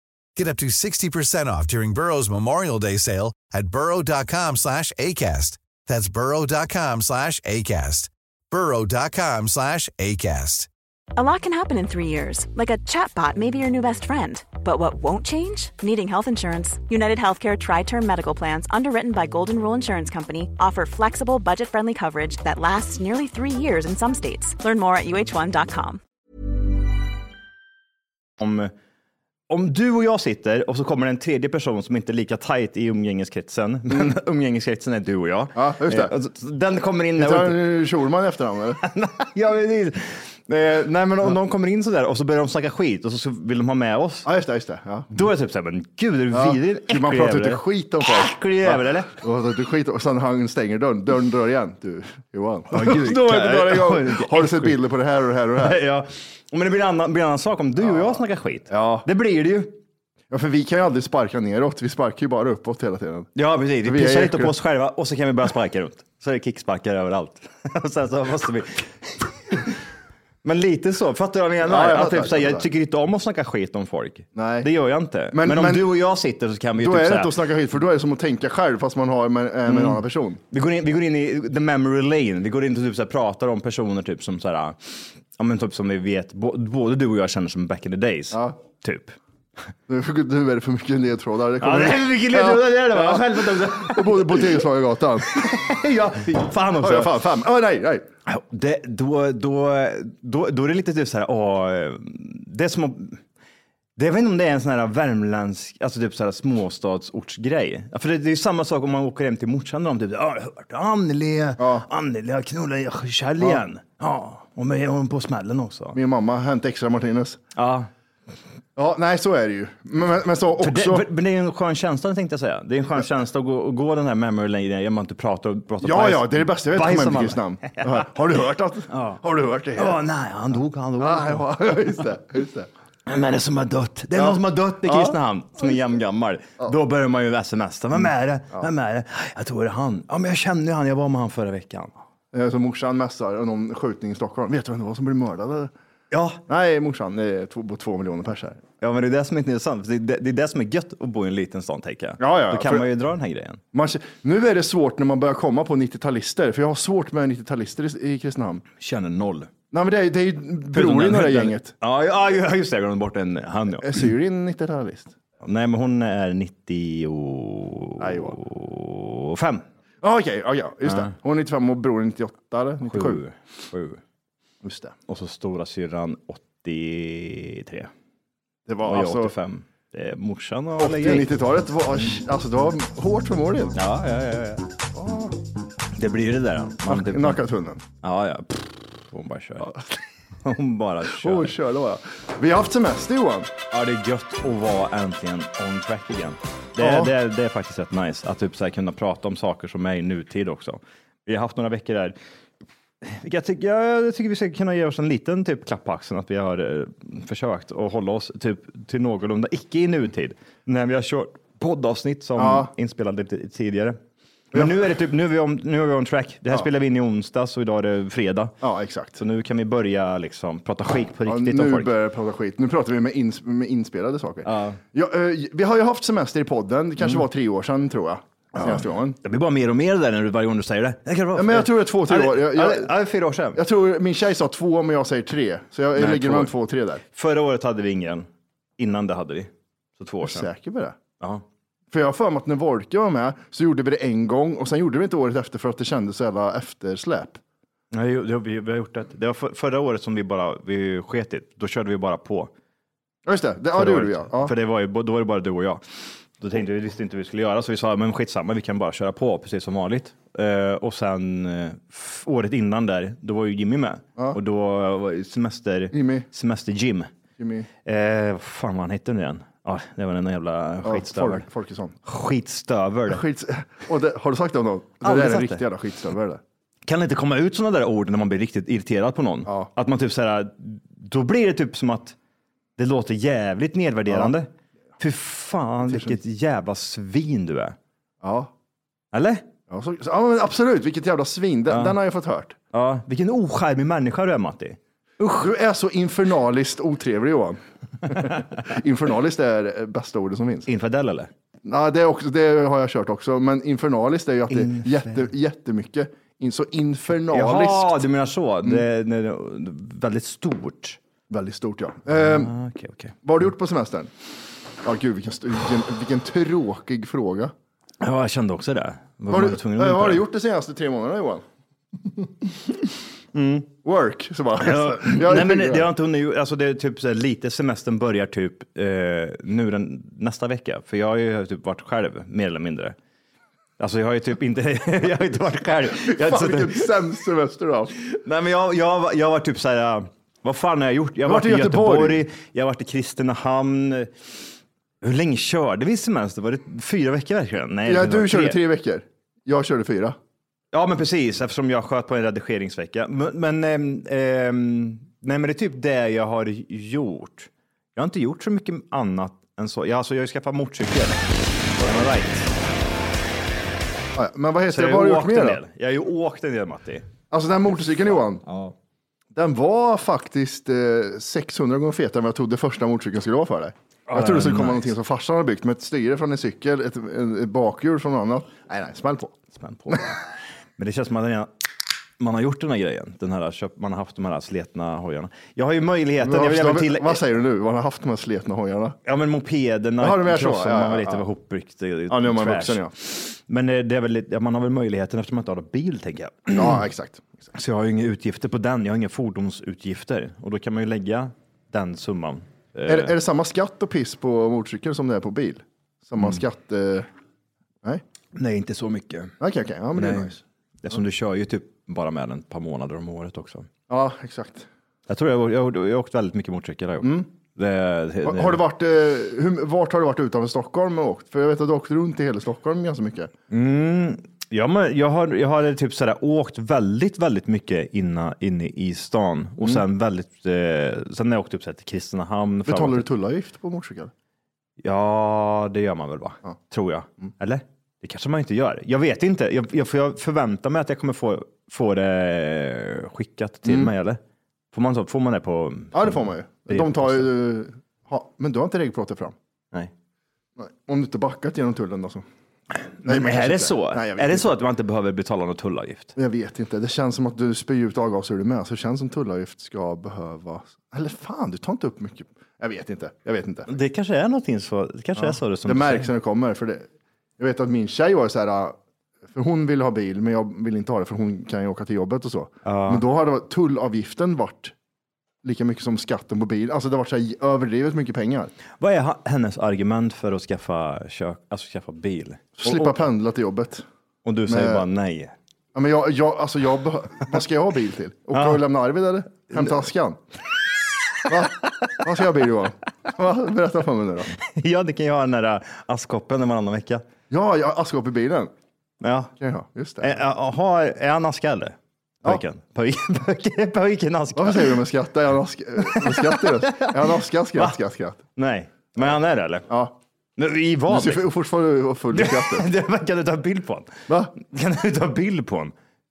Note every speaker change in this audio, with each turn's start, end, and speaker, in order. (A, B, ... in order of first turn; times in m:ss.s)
0:00.4-0:10.7 A
0:11.2-0:26.0 B
0:28.4-0:28.7 C
0:29.5-0:37.6 C
0:35.5-0:36.1 D
0:37.2-0:38.8 D
0:38.8-0:44.3 C
0:44.2-0:45.1 D
0:45.1-0:49.2 C
0:46.3-0:55.8 D
0:52.7-0:54.8 C
0:55.6-0:59.7 C
0:58.7-0:59.1 D
1:00.3-1:03.3 D
1:03.3-1:09.8 C
1:03.8-1:04.5 D
1:10.4-1:17.3 C
1:11.6-1:12.6 D
1:14.3-1:14.7 D
1:15.3-1:15.9 D
1:16.8-1:20.4 D
1:19.7-1:29.2 C
1:29.9-1:35.5 D
1:31.6-1:34.6 C
1:35.3-1:37.2 C
1:36.8-1:38.1 D
1:38.3-1:43.2 C
1:44.0-1:56.0 C
1:51.6-1:51.8 D
1:55.9-1:57.4 D
1:57.6-1:57.9 C
1:58.8-2:01.0 D
2:00.6-2:08.1 C
2:05.8-2:10.0 D
2:08.9-2:09.2 C
2:09.8-2:11.4 C
2:11.0-2:12.7 D
2:13.1-2:21.9 C
2:14.2-2:15.2 D
2:22.3-2:25.7 D
2:26.1-2:26.4 C
2:26.5-2:28.6 D
2:28.8-2:33.6 C
2:32.2-2:32.9 D
2:33.7-2:38.6 D
2:38.8-2:39.5 C
2:39.7-2:41.7 D
2:40.7-2:44.0 C
2:43.8-2:45.1 D
2:45.4-2:49.6 C
2:48.0-2:48.4 D
2:50.0-2:53.2 D
2:50.8-2:51.1 C
2:52.9-2:54.0 C
2:54.6-2:54.9 D
2:55.1-2:57.9 C
2:58.7-2:59.3 D
2:58.8-3:01.3 C
3:00.8-3:03.7 D
3:03.7-3:04.6 C
3:04.9-3:05.4 D
3:06.0-3:07.4 C
3:06.9-3:07.8 D
3:08.0-3:09.7 C
3:10.4-3:11.5 C
3:11.2-3:13.5 D
3:13.7-3:22.1 C
3:16.8-3:17.1 D
3:23.0-3:34.0 C
3:32.4-3:32.7 D
3:34.5-3:38.5 C
3:38.6-3:39.2 D
3:39.2-3:41.9 C
3:41.2-3:49.2 D
3:44.4-3:44.8 C
3:48.5-3:53.6 C
3:51.3-3:52.9 D
3:53.6-3:57.0 D
3:56.0-3:56.5 C
3:57.1-3:58.3 C
3:58.8-4:00.5 C
4:00.2-4:00.9 D
4:01.9-4:07.4 D
4:07.9-4:12.5 C
4:13.2-4:14.5 D
4:13.7-4:15.8 C
4:16.4-4:27.1 C
4:25.9-4:26.2 D
4:27.4-4:27.7 D
4:27.8-4:31.4 C
4:30.8-4:32.0 D
4:32.0-4:33.2 C
4:33.1-4:36.4 D
4:35.0-4:35.6 C
4:36.8-4:42.2 C
4:42.8-4:47.8 C
4:44.1-4:44.3 D
4:45.9-4:46.2 D
4:48.2-4:48.5 D
4:49.1-4:49.4 C
4:49.7-4:52.6 D
4:51.7-4:51.9 C
4:52.7-4:55.5 C
4:55.3-5:00.7 D
5:00.7-5:01.3 C
5:01.6-5:08.0 D
5:04.5-5:05.3 C
5:07.3-5:11.0 C
5:11.3-5:12.5 D
5:12.1-5:13.1 C
5:13.2-5:14.1 D
5:14.8-5:17.5 D
5:18.0-5:20.2 C
5:19.3-5:21.4 D
5:23.3-5:23.7 C
5:23.8-5:25.9 D
5:24.6-5:32.9 C
5:33.8-5:36.9 C
5:36.1-5:38.0 D
5:38.1-5:44.1 C
5:41.2-5:42.2 D
5:45.0-5:48.6 C
5:47.8-5:50.2 D
5:50.7-6:01.2 C
6:01.8-6:02.5 C
6:01.8-6:02.1 D
6:04.1-6:05.6 D
6:04.7-6:07.0 C
6:07.3-6:08.4 D
6:08.5-6:08.7 C
6:09.3-6:19.3 D
6:14.1-6:14.9 C
6:19.5-6:20.2 C
6:20.8-6:21.5 C
6:22.2-6:27.2 C
6:26.2-6:29.0 D
6:29.0-6:36.8 C
6:30.0-6:31.2 D
6:32.1-6:32.9 D
6:36.5-6:37.3 D
6:37.5-6:43.1 C
6:42.9-6:47.1 D
6:48.4-6:49.3 C
6:49.4-6:50.4 D
6:50.0-6:53.7 C
6:53.9-6:54.7 D
6:55.1-6:58.6 C
6:57.0-6:57.3 D
6:58.2-7:03.3 D
7:03.5-7:13.0 C
7:12.7-7:14.1 D
7:14.8-7:24.2 C
7:23.6-7:23.9 D
7:24.7-7:27.3 C
7:25.9-7:29.3 D
7:30.6-7:32.2 D
7:32.7-7:36.1 C
7:33.0-7:34.5 D
7:36.1-7:43.7 D
7:43.7-7:46.1 C
7:45.2-7:46.9 D
7:47.4-7:48.8 D
7:49.3-7:54.7 D
7:52.6-7:53.0 C
7:55.4-7:58.5 D
7:58.8-8:02.9 C
8:02.6-8:03.8 D
8:04.2-8:05.3 C
8:04.5-8:04.8 D
8:05.7-8:10.2 D
8:08.3-8:08.6 C
8:09.5-8:09.8 C
8:11.3-8:14.3 D
8:14.4-8:17.0 C
8:17.3-8:18.5 D
8:19.0-8:19.3 C
8:19.4-8:20.2 D
8:20.0-8:24.8 C
8:24.4-8:28.2 D
8:25.8-8:26.9 C
8:28.4-8:29.6 C
8:29.7-8:29.9 D
8:30.4-8:31.2 C
8:30.9-8:32.7 D
8:32.1-8:35.7 C